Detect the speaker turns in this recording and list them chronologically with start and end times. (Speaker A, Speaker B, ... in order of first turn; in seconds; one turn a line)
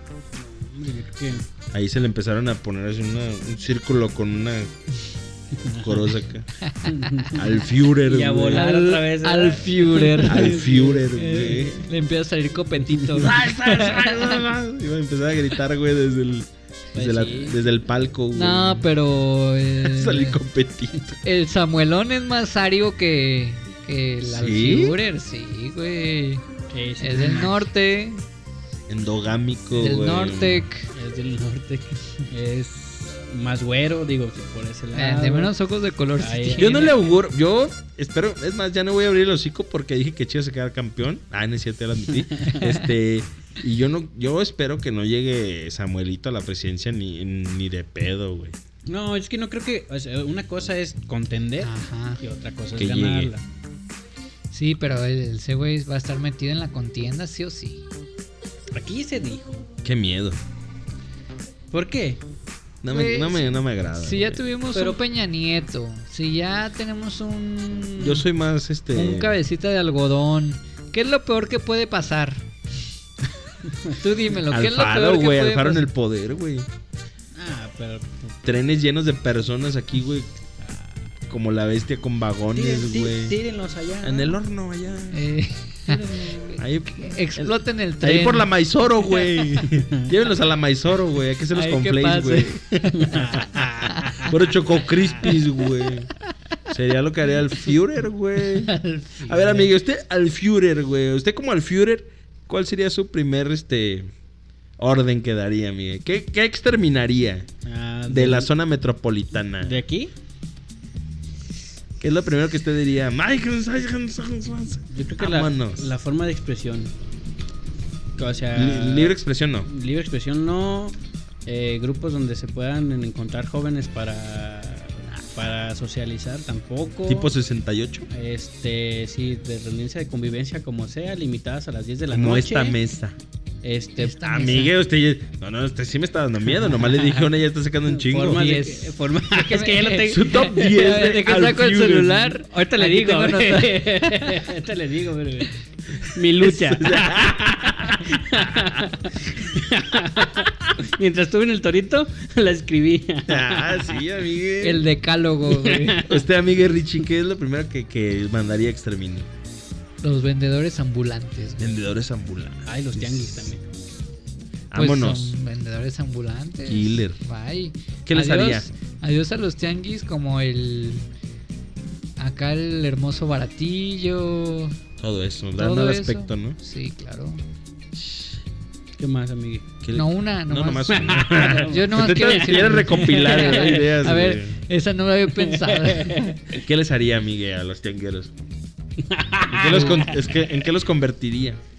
Speaker A: 0.4-1.4
Speaker B: 1.7-4.7
Speaker A: 5.5-6.1
Speaker B: 5.8-6.5
Speaker C: 6.6-7.3
Speaker A: 6.8-11.1
Speaker B: 7.3-8.6
Speaker C: 8.5-14.5
Speaker B: 10.2-11.9
Speaker A: 13.0-13.3
Speaker B: 13.2-18.9
Speaker A: 16.9-17.6
Speaker C: 18.3-20.4
Speaker B: 19.8-21.2
Speaker C: 21.2-26.4
Speaker B: 24.2-25.0
Speaker A: 26.7-27.7
Speaker C: 27.0-28.2
Speaker B: 28.9-30.6
Speaker C: 29.8-30.9
Speaker A: 30.9-35.5
Speaker C: 35.0-36.9
Speaker A: 36.2-37.0
Speaker B: 36.6-48.6
Speaker A: 42.2-42.6
Speaker C: 42.6-42.9
Speaker A: 48.9-53.4
Speaker C: 51.6-52.2
Speaker B: 52.8-53.3
Speaker C: 54.5-57.9
Speaker A: 58.7-59.6
Speaker B: 59.8-60.4
Speaker A: 61.7-62.2
Speaker B: 62.8-64.4
Speaker C: 62.9-68.2
Speaker A: 64.7-65.0
Speaker B: 68.0-69.4
Speaker C: 68.9-72.5
Speaker C: 74.0-75.8
Speaker B: 74.5-76.7
Speaker A: 77.3-78.4
Speaker B: 78.4-80.3
Speaker A: 80.6-81.1
Speaker B: 81.3-83.4
Speaker A: 82.5-84.4
Speaker B: 84.0-85.3
Speaker C: 85.1-88.5
Speaker A: 85.9-86.6
Speaker B: 86.5-93.7
Speaker C: 89.1-89.5
Speaker A: 89.7-90.1
Speaker C: 91.5-93.2
Speaker A: 92.9-95.4
Speaker C: 93.8-94.3
Speaker B: 94.2-96.1
Speaker B: 96.7-104.1
Speaker C: 98.7-99.6
Speaker B: 104.8-107.5
Speaker A: 107.7-108.5
Speaker B: 108.1-109.8
Speaker A: 109.6-110.1
Speaker B: 112.0-115.8
Speaker A: 114.9-116.9
Speaker A: 118.2-127.3
Speaker B: 118.5-119.7
Speaker B: 127.1-128.1
Speaker A: 128.1-132.8
Speaker B: 132.1-133.2
Speaker A: 133.6-134.5
Speaker C: 134.0-134.8
Speaker B: 134.2-138.4
Speaker A: 136.6-137.1
Speaker A: 137.9-140.9
Speaker C: 138.3-144.5
Speaker B: 140.1-142.3
Speaker A: 142.5-154.1
Speaker B: 146.4-148.9
Speaker B: 153.3-154.8
Speaker C: 154.6-156.1
Speaker A: 155.5-156.2
Speaker B: 156.0-159.3
Speaker C: 160.0-161.7
Speaker B: 161.6-163.5
Speaker A: 162.7-163.7
Speaker B: 164.7-165.4
Speaker C: 164.8-171.1
Speaker B: 166.7-167.2
Speaker B: 168.1-168.7
Speaker C: 172.2-174.8
Speaker B: 175.0-176.6
Speaker C: 175.6-177.4
Speaker B: 177.9-178.3
Speaker A: 179.0-179.7
Speaker B: 179.8-184.6
Speaker C: 179.9-186.4
Speaker A: 180.9-183.9
Speaker A: 185.3-186.4
Speaker B: 186.5-188.3
Speaker A: 189.0-190.7
Speaker B: 189.5-191.6
Speaker C: 189.7-190.0